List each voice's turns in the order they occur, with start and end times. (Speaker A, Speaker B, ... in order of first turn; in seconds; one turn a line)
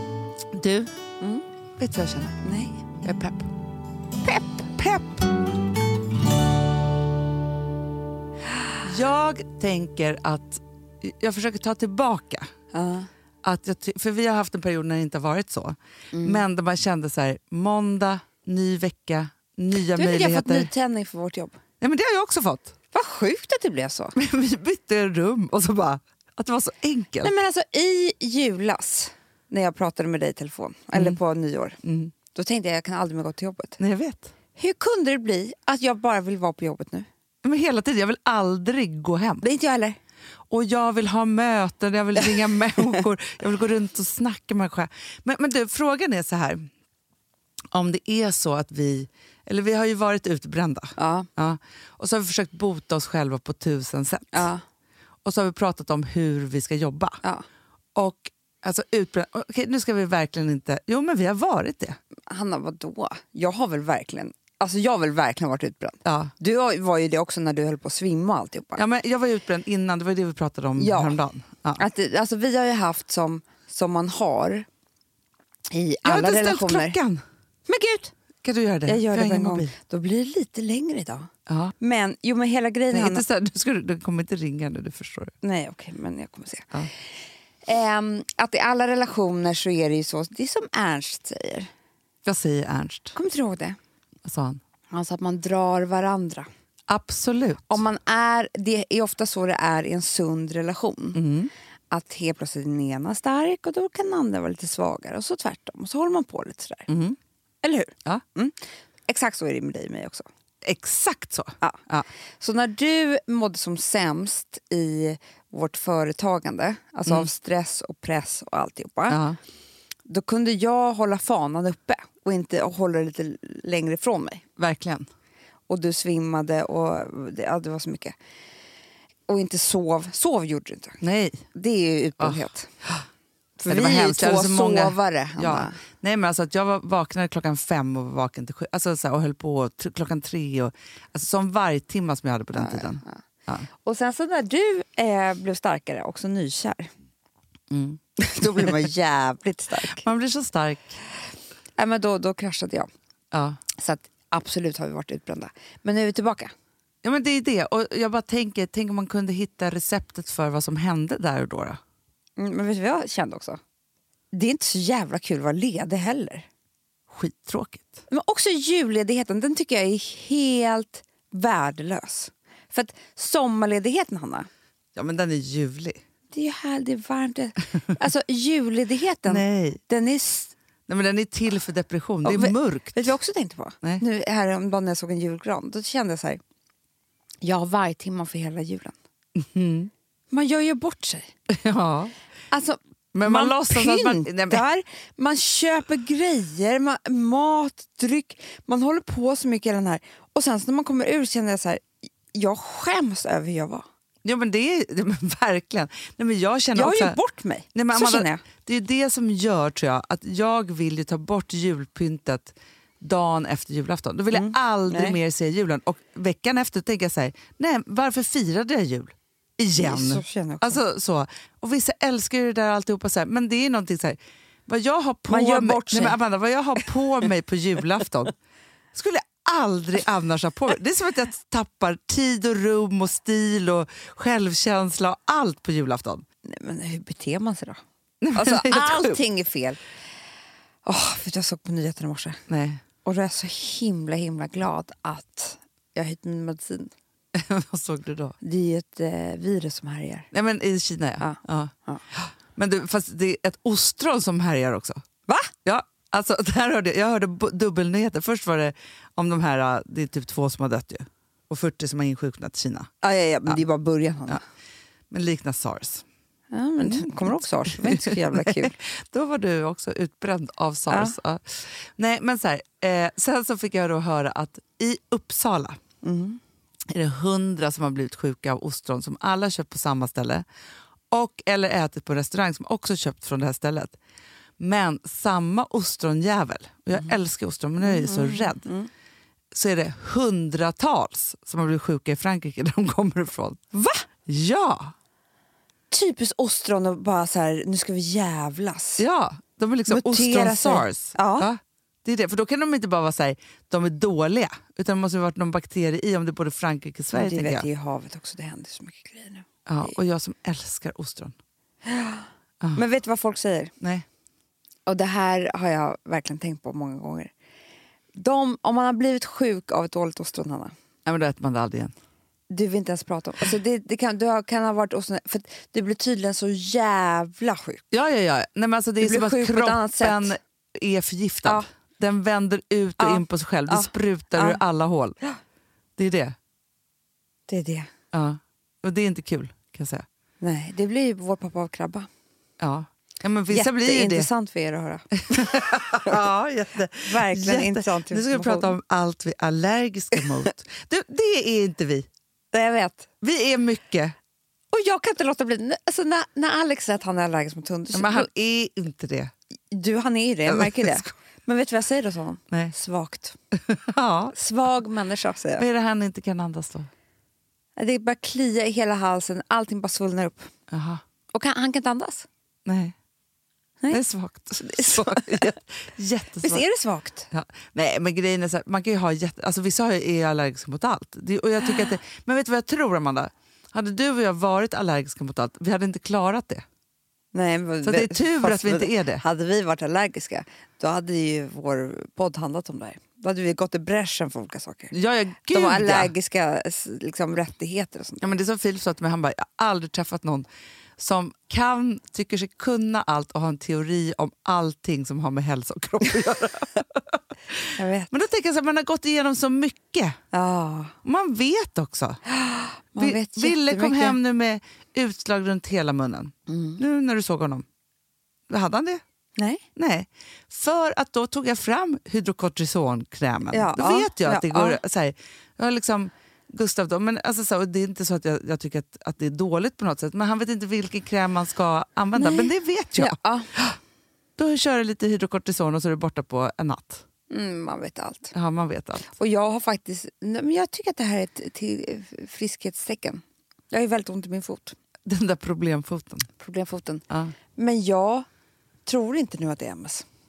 Speaker A: 0.5-0.9
Speaker A: 1.8-2.4
Speaker B: 2.4-2.8
Speaker A: 3.0-3.5
Speaker A: 4.3-5.3
Speaker A: 8.8-12.5
Speaker B: 12.7-13.1
Speaker A: 13.4-20.7
Speaker B: 16.1-16.4
Speaker B: 19.9-21.6
Speaker A: 21.8-22.7
Speaker B: 22.9-24.1
Speaker A: 24.1-27.3
Speaker B: 27.2-31.8
Speaker A: 31.8-32.1
Speaker B: 32.3-33.8
Speaker A: 33.8-34.3
Speaker B: 34.6-37.1
Speaker A: 37.4-39.5
Speaker B: 39.4-40.0
Speaker A: 40.5-46.7
Speaker A: 47.7-54.5
Speaker B: 51.0-51.3
Speaker B: 54.3-54.6
Speaker A: 55.2-57.2
Speaker A: 58.0-62.0
Speaker B: 62.3-68.8
Speaker A: 66.0-66.3
Speaker A: 68.8-71.8
Speaker B: 70.8-71.2
Speaker B: 71.8-74.7
Speaker B: 75.7-77.0
Speaker A: 76.0-77.2
Speaker B: 77.7-78.1
Speaker A: 78.4-79.7
Speaker B: 78.9-81.3
Speaker A: 81.5-81.7
Speaker B: 81.8-83.2
Speaker A: 82.9-85.3
Speaker B: 85.4-86.7
Speaker B: 87.7-91.7
Speaker A: 92.3-93.2
Speaker B: 93.1-93.8
Speaker A: 94.2-94.6
Speaker B: 94.9-96.5
Speaker A: 96.9-97.8
Speaker B: 97.7-101.2
Speaker A: 101.2-101.5
Speaker B: 101.9-106.9
Speaker A: 106.9-107.2
Speaker B: 107.6-110.3
Speaker A: 110.6-112.1
Speaker B: 112.4-119.2
Speaker A: 119.1-119.4
Speaker B: 120.1-124.4
Speaker A: 124.6-125.1
Speaker B: 125.7-128.2
Speaker B: 129.3-131.0
Speaker A: 131.0-131.5
Speaker B: 131.5-132.7
Speaker A: 132.2-133.1
Speaker B: 133.6-135.8
Speaker A: 133.7-143.7
Speaker B: 142.5-143.2
Speaker B: 143.8-146.9
Speaker A: 147.7-148.9
Speaker B: 148.2-150.0
Speaker A: 149.8-151.0
Speaker B: 151.8-152.9
Speaker A: 153.3-153.6
Speaker B: 153.8-156.5
Speaker A: 157.0-161.8
Speaker B: 162.4-163.6
Speaker B: 164.3-166.5
Speaker A: 167.1-168.0
Speaker B: 168.1-174.5
Speaker A: 174.9-176.0
Speaker B: 176.3-180.5
Speaker A: 179.3-179.8
Speaker A: 180.9-183.2
Speaker B: 182.2-186.4
Speaker B: 187.4-188.9
Speaker A: 189.4-189.9
Speaker B: 190.3-191.3
Speaker A: 191.5-192.1
Speaker B: 192.5-203.9
Speaker A: 193.1-194.7
Speaker A: 204.2-207.2
Speaker B: 206.8-208.4
Speaker A: 207.7-228.3
Speaker B: 214.3-215.2
Speaker B: 219.8-220.8
Speaker B: 225.3-226.2
Speaker A: 228.9-236.2
Speaker B: 236.5-237.8
Speaker A: 238.2-239.2
Speaker B: 238.3-239.8
Speaker B: 240.8-242.4
Speaker A: 242.5-242.8
Speaker B: 243.0-246.9
Speaker A: 247.3-248.4
Speaker B: 248.4-250.3
Speaker A: 250.3-255.0
Speaker B: 251.2-252.0
Speaker B: 255.3-255.5
Speaker A: 255.7-262.9
Speaker B: 263.0-264.4
Speaker A: 265.1-266.1
Speaker B: 266.5-268.8
Speaker A: 266.8-275.8
Speaker B: 270.9-271.2
Speaker B: 276.0-276.4
Speaker A: 276.9-280.4
Speaker A: 281.1-284.0
Speaker A: 284.6-288.6
Speaker B: 287.8-288.9
Speaker A: 289.5-293.6
Speaker B: 293.7-294.1
Speaker A: 294.2-294.9
Speaker B: 295.9-299.0
Speaker A: 299.0-307.7
Speaker B: 299.9-301.5
Speaker B: 307.1-309.4
Speaker A: 309.7-311.3
Speaker B: 311.8-313.7
Speaker B: 314.9-317.3
Speaker B: 318.1-320.7
Speaker A: 321.1-321.9
Speaker B: 322.5-327.8
Speaker A: 327.9-335.1
Speaker B: 329.0-330.4
Speaker B: 333.0-334.6
Speaker A: 336.0-336.4
Speaker B: 337.5-337.9
Speaker A: 338.1-340.1
Speaker B: 340.4-342.1
Speaker A: 342.6-344.3
Speaker B: 343.5-346.2
Speaker A: 345.2-352.1
Speaker B: 347.0-348.8
Speaker B: 352.5-353.1
Speaker A: 353.2-354.1
Speaker B: 354.7-358.3
Speaker A: 357.9-359.3
Speaker B: 359.7-363.4
Speaker A: 360.5-361.1
Speaker A: 363.7-364.4
Speaker B: 364.3-365.6
Speaker A: 365.6-366.9
Speaker B: 367.8-370.5
Speaker A: 370.7-371.0
Speaker B: 371.3-372.3
Speaker A: 372.7-372.9
Speaker A: 373.9-376.6
Speaker B: 374.6-375.5
Speaker B: 376.4-377.3
Speaker A: 377.3-386.6
Speaker B: 387.3-394.9
Speaker A: 387.8-389.2
Speaker A: 394.9-396.1
Speaker B: 395.5-398.3
Speaker A: 398.2-400.5
Speaker A: 401.0-410.2
Speaker B: 407.8-408.1
Speaker B: 410.3-410.9
Speaker A: 411.0-412.2
Speaker B: 412.3-414.2
Speaker A: 413.0-417.6
Speaker B: 416.5-416.8
Speaker A: 418.5-419.0
Speaker B: 419.4-419.6
Speaker A: 419.8-433.8
Speaker B: 423.5-424.8
Speaker B: 432.1-433.5
Speaker A: 434.4-437.0
Speaker B: 437.3-438.3
Speaker A: 438.3-439.1
Speaker B: 439.1-444.8
Speaker A: 445.1-446.3
Speaker B: 446.4-447.0
Speaker A: 447.1-447.4
Speaker B: 447.6-448.3
Speaker B: 448.9-450.1